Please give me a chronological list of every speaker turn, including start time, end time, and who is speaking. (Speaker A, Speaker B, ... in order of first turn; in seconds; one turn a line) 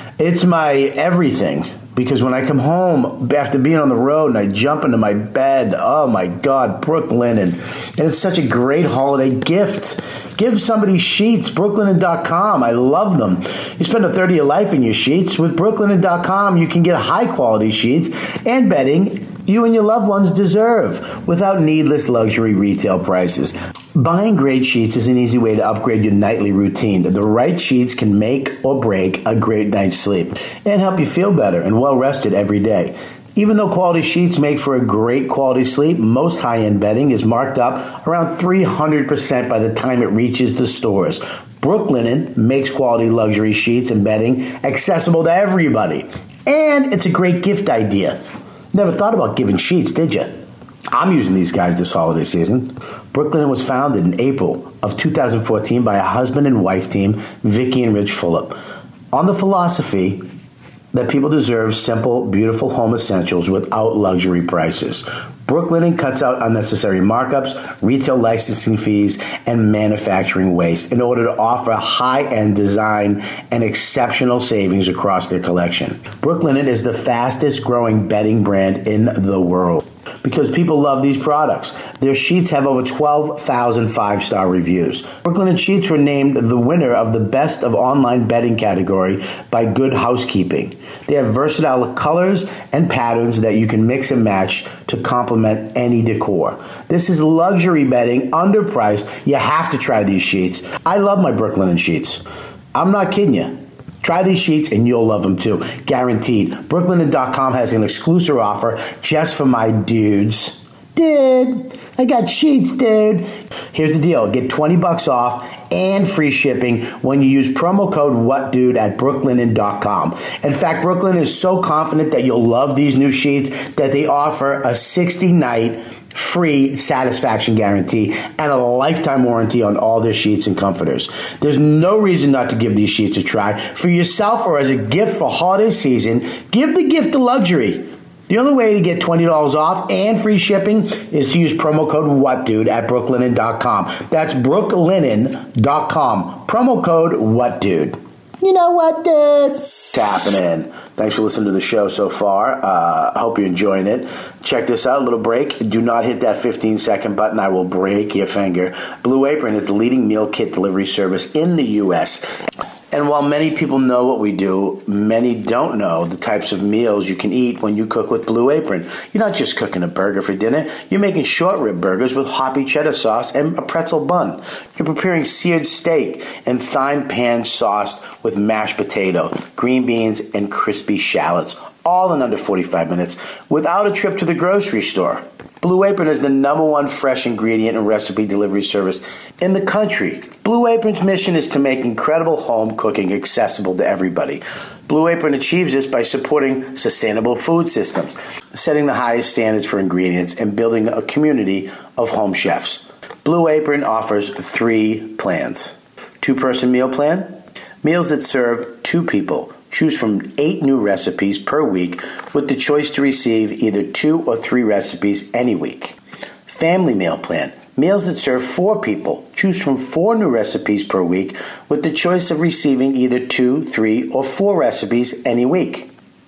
Speaker A: 0.2-50.4
Speaker A: 50.9-58.6
Speaker A: 59.1-60.3
Speaker A: 60.9-162.3
Speaker A: 162.9-225.9